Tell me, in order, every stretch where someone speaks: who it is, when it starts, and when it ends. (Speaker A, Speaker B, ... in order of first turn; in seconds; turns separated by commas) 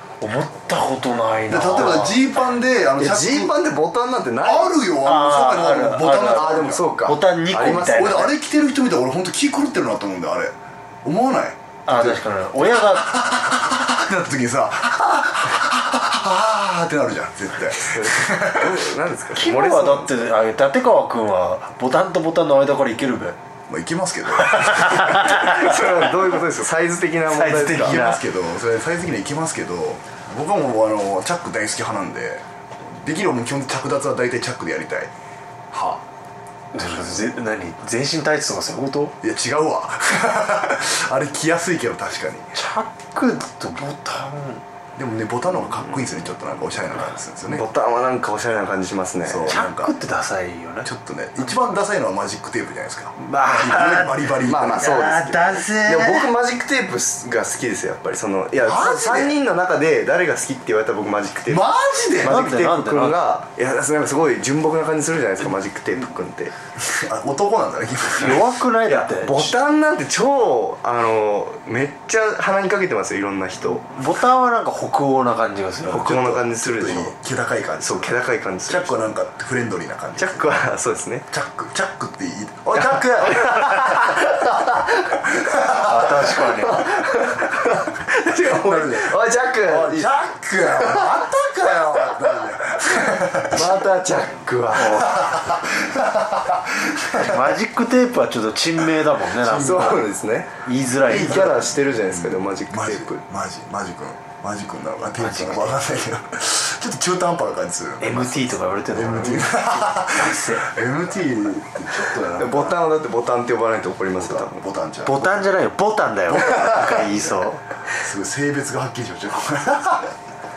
Speaker A: 0.2-2.3, Speaker B: 1.5-3.5, Speaker C: 3.0-4.9, Speaker B: 4.4-6.8, Speaker A: 5.0-8.3, Speaker C: 6.2-8.3, Speaker B: 7.8-18.8, Speaker A: 11.9-13.2, Speaker C: 17.7-20.1, Speaker A: 19.3-23.4, Speaker B: 23.7-25.4, Speaker A: 24.6-25.5, Speaker C: 25.0-28.1, Speaker A: 27.3-28.2, Speaker B: 27.5-35.1, Speaker B: 35.7-36.0, Speaker A: 36.7-39.1, Speaker B: 36.8-37.3, Speaker B: 39.2-42.5, Speaker A: 42.5-44.6, Speaker B: 45.0-47.6, Speaker C: 45.5-46.1, Speaker C: 47.5-49.6, Speaker B: 49.2-50.0, Speaker A: 49.5-50.9, Speaker B: 50.8-55.0, Speaker A: 53.2-56.3, Speaker C: 54.4-61.6, Speaker B: 58.6-59.3, Speaker B: 61.5-62.4, Speaker C: 62.2-66.5, Speaker A: 62.2-63.2, Speaker B: 66.8-68.5, Speaker A: 68.2-69.5, Speaker C: 69.1-73.9, Speaker A: 73.9-76.1, Speaker C: 75.9-77.2, Speaker B: 75.9-78.1, Speaker C: 77.8-79.1, Speaker B: 78.7-80.6, Speaker C: 80.2-81.3, Speaker B: 81.3-84.1, Speaker C: 82.8-85.2, Speaker B: 85.5-86.5, Speaker A: 85.7-86.8, Speaker C: 86.2-92.5, Speaker B: 88.4-93.8, Speaker C: 93.4-95.3, Speaker A: 94.8-95.2, Speaker B: 94.9-97.6, Speaker A: 97.2-100.0, Speaker B: 99.4-99.9, Speaker C: 99.5-103.2, Speaker A: 100.7-101.6, Speaker B: 101.1-112.8, Speaker A: 105.2-105.8, Speaker A: 108.0-110.7, Speaker C: 112.4-114.6, Speaker B: 114.2-115.5, Speaker A: 115.0-117.6, Speaker B: 116.3-117.2, Speaker B: 118.0-120.1